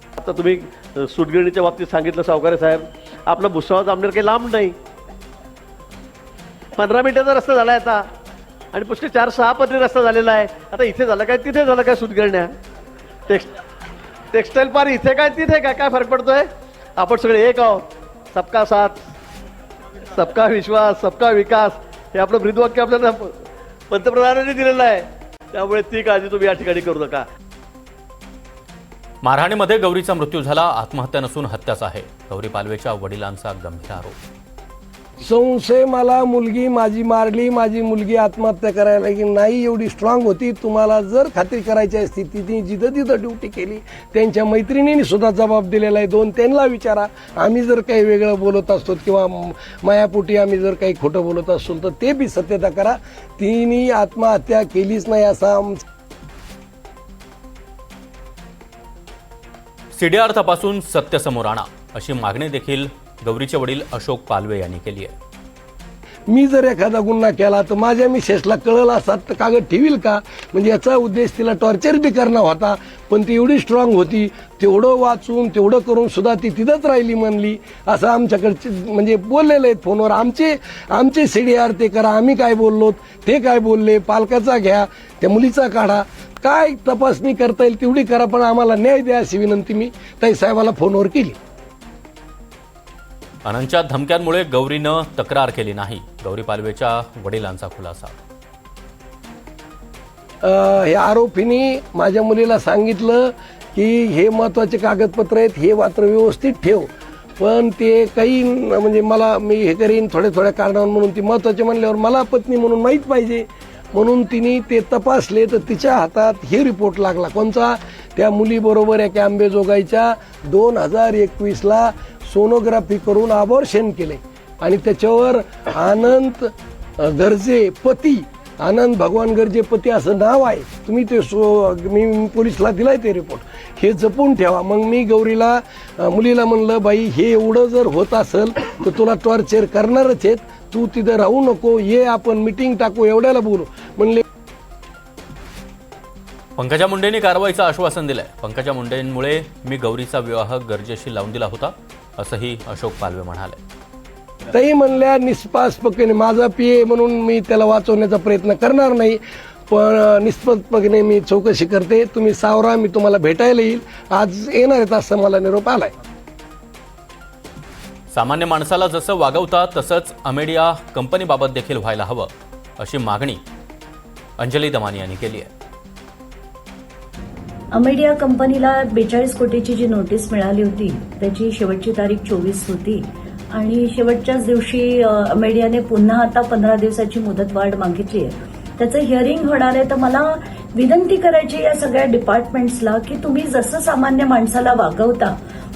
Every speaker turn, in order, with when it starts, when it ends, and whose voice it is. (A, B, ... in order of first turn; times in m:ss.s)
0:00.2-0:04.8 A
0:06.8-0:08.1 A
0:08.7-0:12.5 A
0:13.3-0:13.5 A
0:14.3-0:19.0 A
0:20.1-0:27.2 A
0:29.2-0:34.2 B
0:35.2-0:55.8 C
0:59.9-1:05.1 B
1:06.3-1:31.4 C
1:33.4-1:38.2 B
1:40.4-2:24.2 C
2:26.6-2:33.6 B
2:34.5-2:45.9 C
2:48.1-2:53.4 B
2:54.4-2:55.5 B
2:57.7-3:15.4 D